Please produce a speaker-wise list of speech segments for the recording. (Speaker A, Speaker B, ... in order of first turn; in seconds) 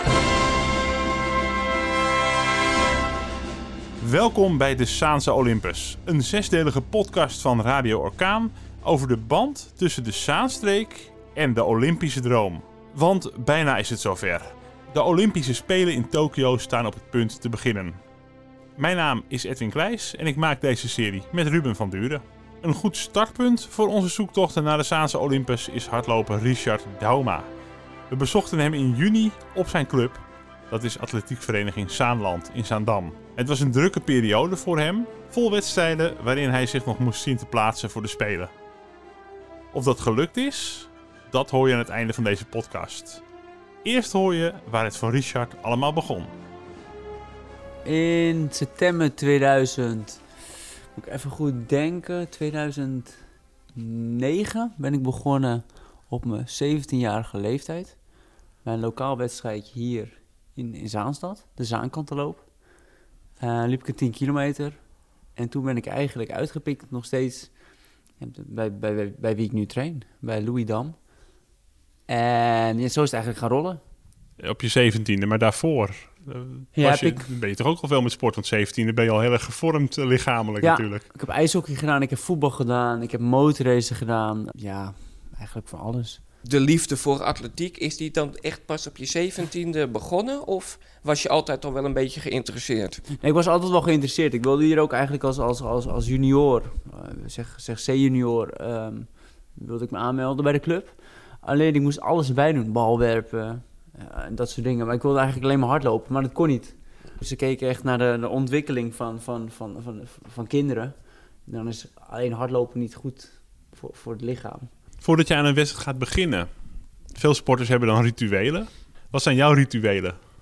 Speaker A: 4.0-18.0, 18.8-27.4, 28.1-38.5, 39.7-43.2, 43.8-46.3, 74.4-81.0, 115.0-116.5, 117.1-120.2
Speaker B: 47.8-50.2, 50.9-53.2, 53.7-58.0, 58.6-62.5, 63.4-64.8, 65.3-67.5, 68.2-71.0, 72.1-73.8, 76.7-77.3, 80.6-86.2, 93.2-110.9, 111.5-114.7
Speaker C: 86.4-93.0